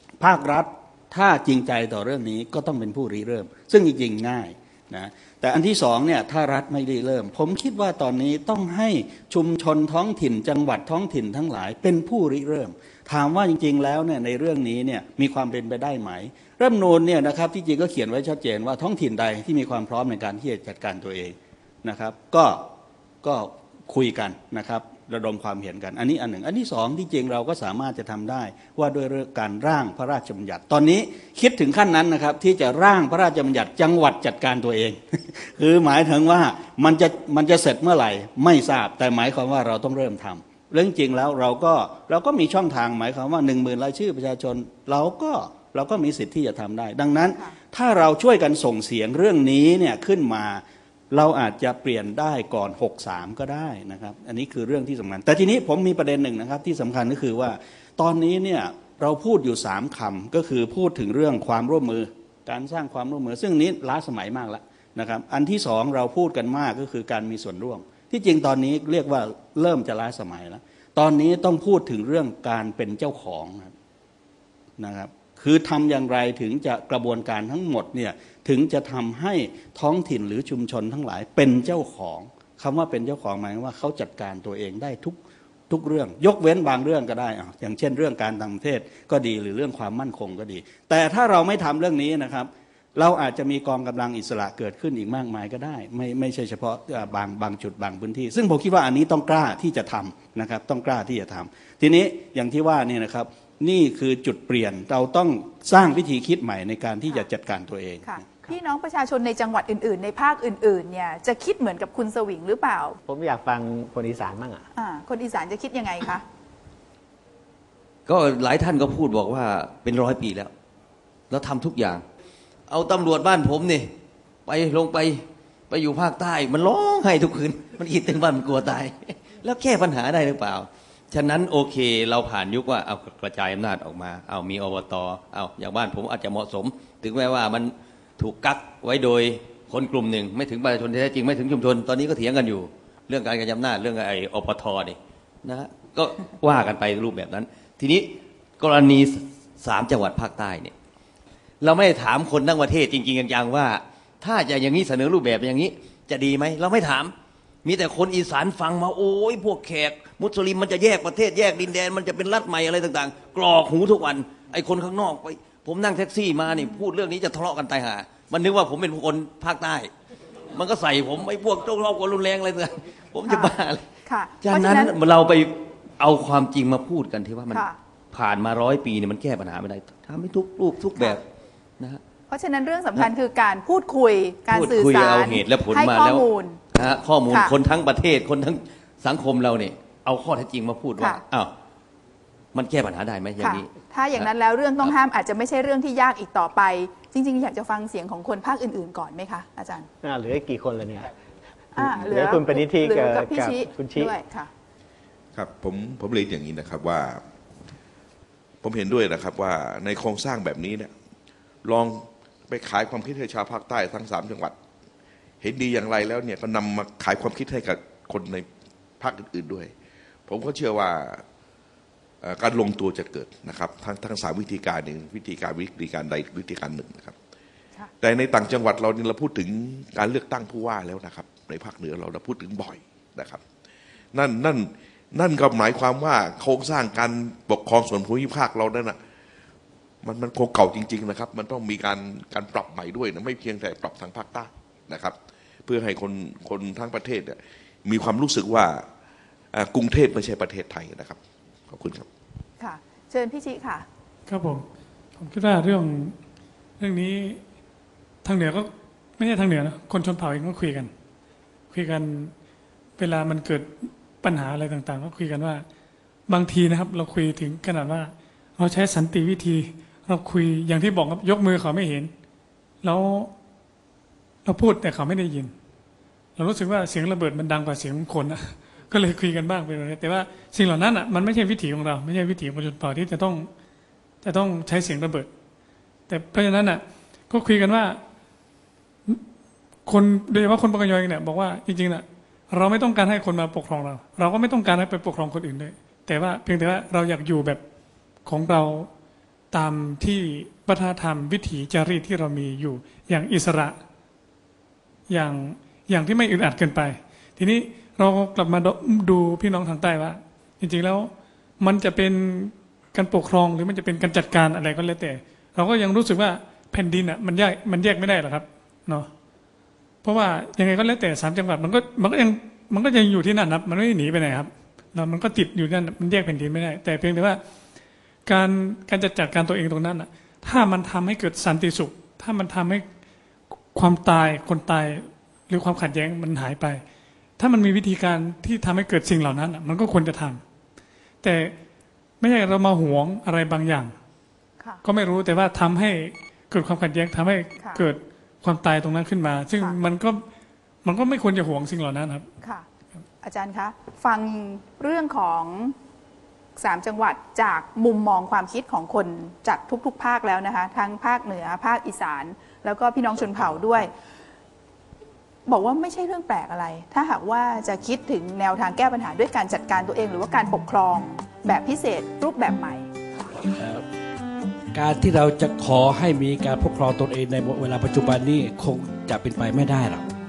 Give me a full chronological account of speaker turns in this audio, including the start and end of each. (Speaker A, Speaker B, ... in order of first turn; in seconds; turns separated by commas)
Speaker A: 0.2-22.7, Speaker A: 23.2-73.7, Speaker A: 74.8-85.2, Speaker A: 85.7-108.2, Speaker B: 108.0-113.0, Speaker C: 113.0-114.7, Speaker B: 114.8-116.2, Speaker D: 118.1-120.5, Speaker D: 121.3-122.0, Speaker D: 122.7-123.9, Speaker D: 124.5-150.7, Speaker D: 151.6-157.1, Speaker D: 157.7-169.9, Speaker B: 166.5-166.8, Speaker D: 170.5-173.8, Speaker B: 173.3-173.5, Speaker B: 174.1-174.9, Speaker D: 174.4-181.2, Speaker B: 177.5-177.8, Speaker B: 182.3-186.6, Speaker D: 184.5-191.5, Speaker B: 187.3-187.6, Speaker B: 191.0-191.2, Speaker D: 192.5-194.3, Speaker B: 193.4-199.9, Speaker C: 200.0-201.1, Speaker C: 201.8-204.2, Speaker B: 201.8-204.5, Speaker E: 205.3-207.2, Speaker E: 208.6-210.9, Speaker E: 211.6-214.6, Speaker E: 215.4-218.5, Speaker E: 219.0-219.7, Speaker E: 220.3-221.2, Speaker E: 222.2-227.2, Speaker E: 228.0-233.4, Speaker E: 234.1-239.0, Speaker E: 240.0-248.8, Speaker E: 249.5-251.2, Speaker E: 251.7-252.1, Speaker B: 252.6-253.8, Speaker F: 254.3-254.7, Speaker F: 255.2-256.1, Speaker F: 256.8-257.4, Speaker F: 258.2-260.9, Speaker F: 261.7-262.3, Speaker F: 263.0-263.7, Speaker F: 264.2-265.6, Speaker F: 266.3-272.1, Speaker F: 272.8-273.3, Speaker F: 274.4-275.5, Speaker F: 276.4-283.5, Speaker F: 284.2-285.3, Speaker F: 286.1-288.0, Speaker F: 289.9-297.6, Speaker F: 298.2-298.9, Speaker F: 299.5-303.8, Speaker F: 305.1-319.1, Speaker F: 320.0-327.4, Speaker F: 328.2-332.8, Speaker F: 333.7-336.8, Speaker F: 337.4-340.4, Speaker F: 341.2-341.5, Speaker F: 342.2-343.9, Speaker F: 344.8-350.2, Speaker B: 347.6-347.8, Speaker F: 350.8-352.3, Speaker B: 353.2-355.8, Speaker B: 356.6-363.9, Speaker B: 365.5-372.9, Speaker G: 373.5-373.8, Speaker G: 374.7-380.1